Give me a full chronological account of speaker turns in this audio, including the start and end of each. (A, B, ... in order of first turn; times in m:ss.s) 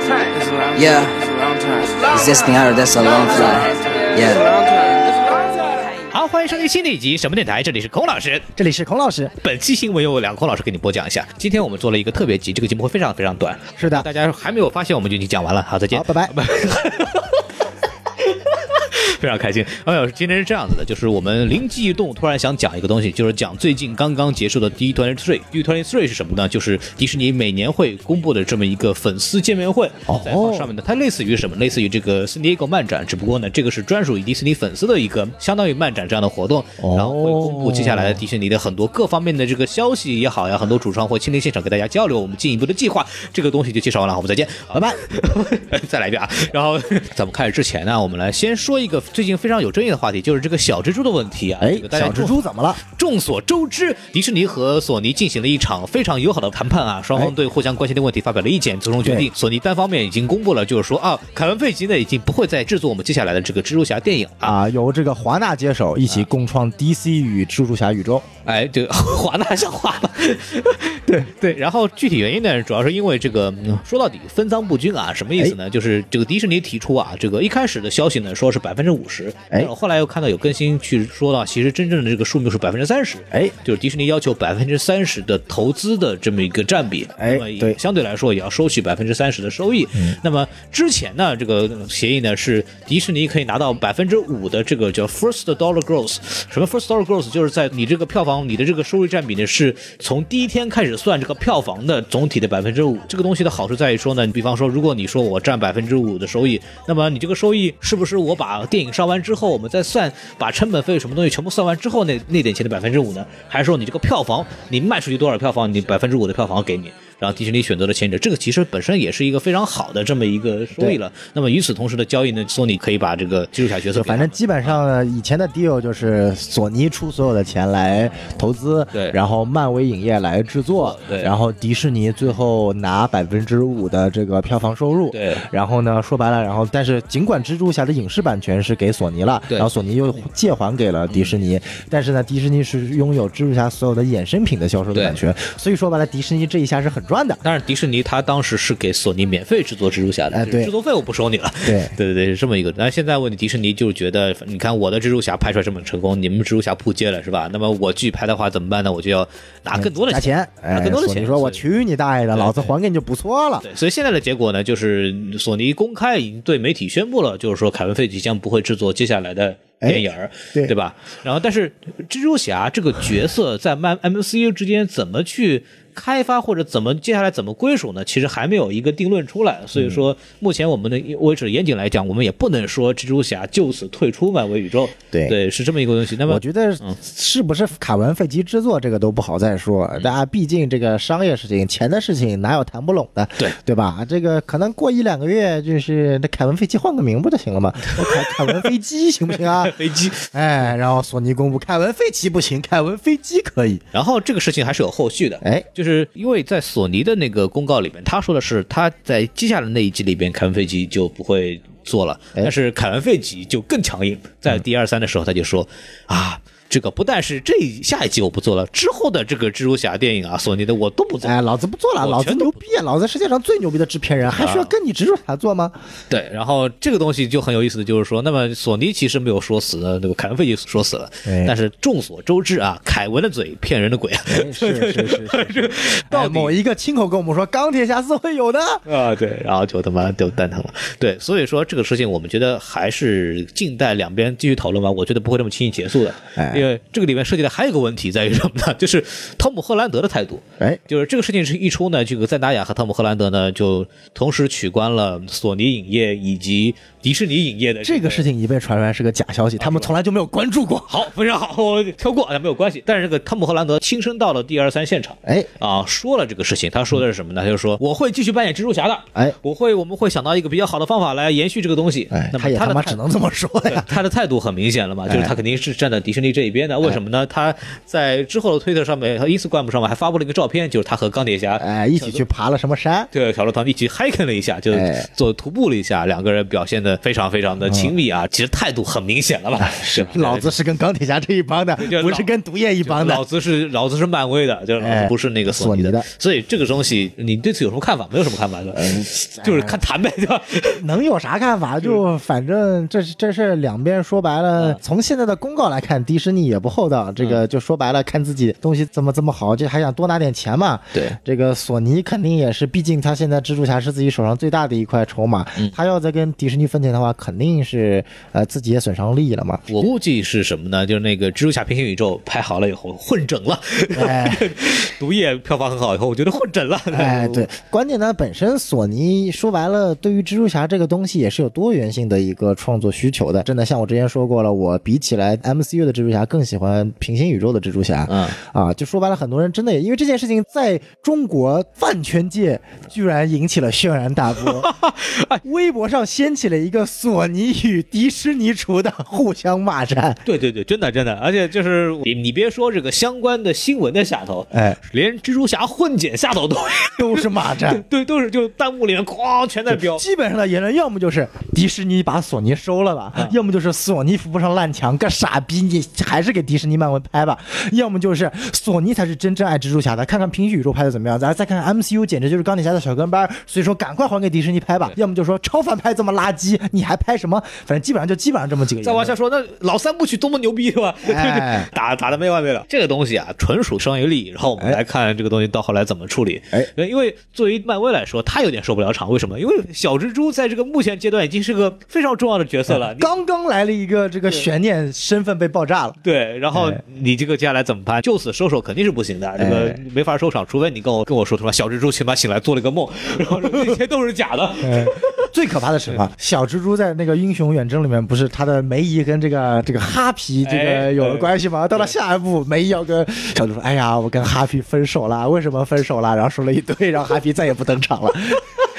0:00.7-0:04.7 A
0:06.1-0:08.5 B
0:08.6-0:09.3 C
0:09.4-0:17.4 B
0:13.8-0:14.1 C
0:15.9-0:16.4 C
0:18.2-1:04.6 B
0:30.1-0:30.7 C
0:36.8-0:38.2 C
0:44.7-0:45.1 C
0:51.6-0:52.8 C
0:59.0-0:59.3 C
1:04.4-1:08.3 C
1:08.5-2:04.7 B
1:27.2-1:27.8 C
2:03.9-2:27.4 C
2:10.8-2:11.3 B
2:15.1-2:15.4 B
2:21.1-2:21.4 B
2:27.4-2:41.6 B
2:30.3-2:30.7 C
2:31.6-2:31.9 C
2:39.7-2:43.7 C
2:42.4-2:42.7 B
2:43.6-3:07.0 B
2:49.8-2:50.7 C
2:59.8-3:00.0 C
3:05.1-3:05.4 C
3:06.2-3:19.8 C
3:17.9-3:18.7 B
3:19.4-3:20.3 B
3:20.3-3:23.8 C
3:23.9-3:41.4 B
3:25.4-3:25.7 C
3:41.2-3:45.8 C
3:42.0-3:42.6 B
3:44.4-3:44.7 B
3:46.1-3:56.6 B
3:51.2-3:51.6 C
3:54.3-3:58.8 C
3:58.9-4:18.3 B
4:06.4-4:06.7 C
4:17.8-4:21.1 C
4:19.6-4:19.9 B
4:20.9-4:33.0 B
4:25.2-4:25.5 C
4:32.1-4:33.9 C
4:33.7-4:42.2 B
4:35.1-4:35.4 C
4:41.6-4:43.1 C
4:43.1-4:50.5 B
4:44.7-4:45.1 C
4:47.7-4:47.9 C
4:49.6-4:53.2 C
4:51.8-4:52.3 B
4:52.8-5:00.8 B
4:54.8-4:56.1 C
4:58.7-4:59.8 C
5:00.8-5:19.8 C
5:19.7-5:27.5 B
5:24.0-5:24.5 C
5:26.9-5:44.7 C
5:38.1-5:38.4 B
5:44.5-5:45.4 B
5:45.4-5:50.2 C
5:50.2-6:00.0 B
5:54.5-5:54.8 C
5:57.0-5:57.8 C
5:59.7-6:19.2 C
6:18.8-6:33.1 B
6:21.0-6:21.7 C
6:24.6-6:24.8 C
6:32.7-6:36.0 C
6:36.0-6:45.3 B
6:36.5-6:36.8 C
6:39.4-6:39.8 C
6:43.3-6:43.8 C
6:44.6-6:58.5 C
6:50.4-6:51.9 B